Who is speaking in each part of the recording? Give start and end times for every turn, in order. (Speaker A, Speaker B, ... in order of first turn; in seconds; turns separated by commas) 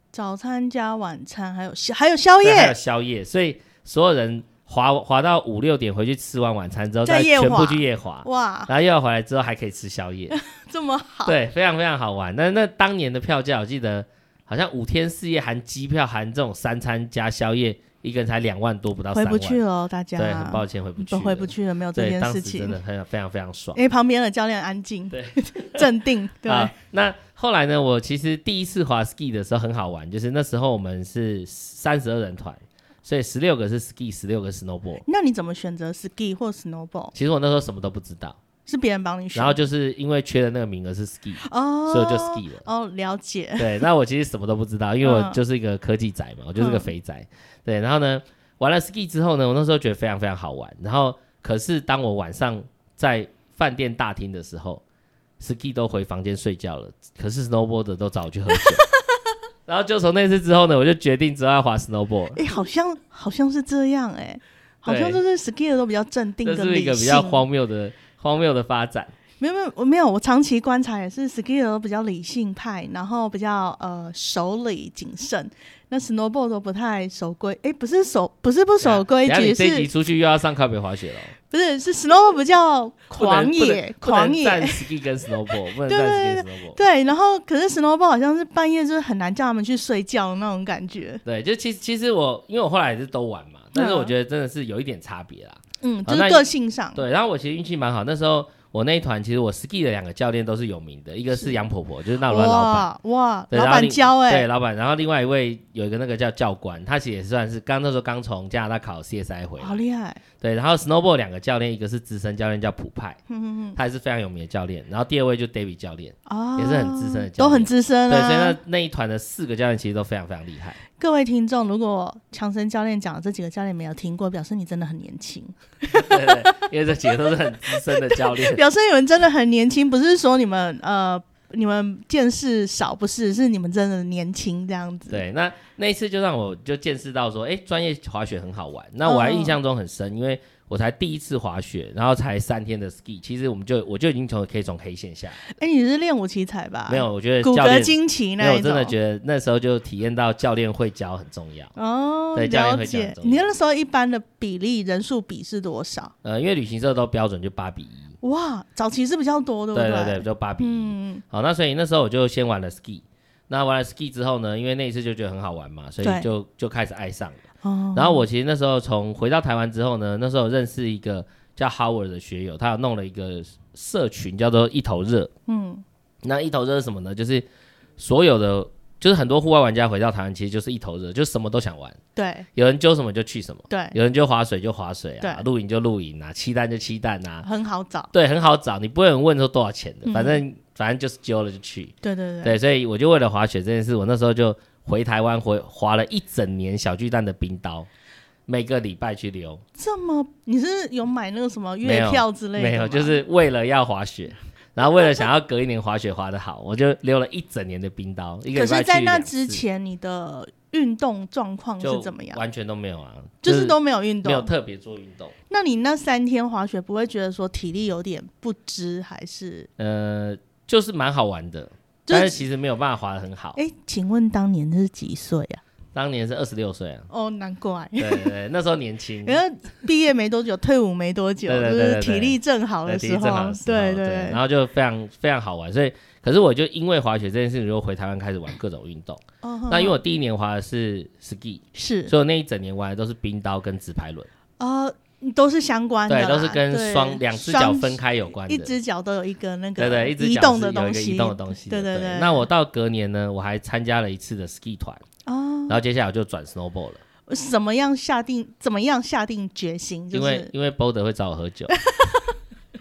Speaker A: 0.1-2.7, Speaker B: 2.4-10.3, Speaker A: 7.0-8.7, Speaker A: 10.3-11.3, Speaker B: 11.2-19.6, Speaker A: 19.1-22.8, Speaker B: 20.1-23.8, Speaker A: 23.7-26.7, Speaker B: 25.1-25.9, Speaker B: 26.4-35.0, Speaker A: 35.0-37.1, Speaker B: 37.1-38.4, Speaker A: 38.6-39.6, Speaker B: 39.3-42.6, Speaker A: 41.4-43.8, Speaker B: 43.6-54.8, Speaker A: 45.0-45.4, Speaker A: 46.6-46.9, Speaker B: 55.4-58.8, Speaker B: 59.6-62.4, Speaker A: 62.3-67.4, Speaker B: 64.8-65.2, Speaker B: 66.4-69.1, Speaker A: 69.4-79.9, Speaker B: 78.8-81.3, Speaker A: 81.5-84.8, Speaker B: 83.2-86.8, Speaker A: 85.8-91.2, Speaker B: 91.2-102.9, Speaker A: 93.7-94.1, Speaker A: 95.8-97.0, Speaker A: 102.2-104.5, Speaker B: 103.5-109.8, Speaker A: 109.6-110.2, Speaker B: 110.4-113.2, Speaker A: 113.3-113.8, Speaker B: 113.8-120.8, Speaker A: 116.3-118.6, Speaker A: 121.0-126.6, Speaker B: 125.9-128.6, Speaker A: 127.7-135.2, Speaker B: 135.1-145.4, Speaker A: 139.0-139.6, Speaker A: 145.4-148.9, Speaker B: 146.9-151.7, Speaker A: 151.8-156.1, Speaker B: 152.3-153.5, Speaker B: 156.2-158.1, Speaker A: 158.2-161.2, Speaker B: 159.7-167.4, Speaker A: 166.0-166.3, Speaker A: 167.6-168.2, Speaker B: 167.9-175.3, Speaker A: 175.5-175.8, Speaker B: 176.2-177.4, Speaker B: 178.0-182.0, Speaker A: 182.2-182.4, Speaker B: 182.6-187.4, Speaker A: 183.7-184.0, Speaker A: 187.4-188.1, Speaker B: 188.1-197.9, Speaker A: 190.0-190.4, Speaker A: 192.0-192.6, Speaker B: 198.5-199.6, Speaker A: 199.8-203.2, Speaker B: 201.8-209.6, Speaker A: 208.5-212.4, Speaker B: 211.8-215.3, Speaker A: 213.4-214.5, Speaker A: 215.5-219.7, Speaker B: 219.8-223.6, Speaker A: 222.1-222.4, Speaker A: 223.6-225.6, Speaker B: 225.9-227.1, Speaker A: 227.1-228.3, Speaker B: 228.0-229.4, Speaker A: 229.2-234.4, Speaker B: 231.5-244.3, Speaker A: 239.4-240.0, Speaker A: 241.7-242.1, Speaker A: 244.6-252.5, Speaker B: 246.1-248.8, Speaker B: 249.8-255.0, Speaker A: 255.2-255.8, Speaker B: 255.7-257.0, Speaker A: 257.3-260.5, Speaker B: 260.1-261.7, Speaker A: 261.7-262.4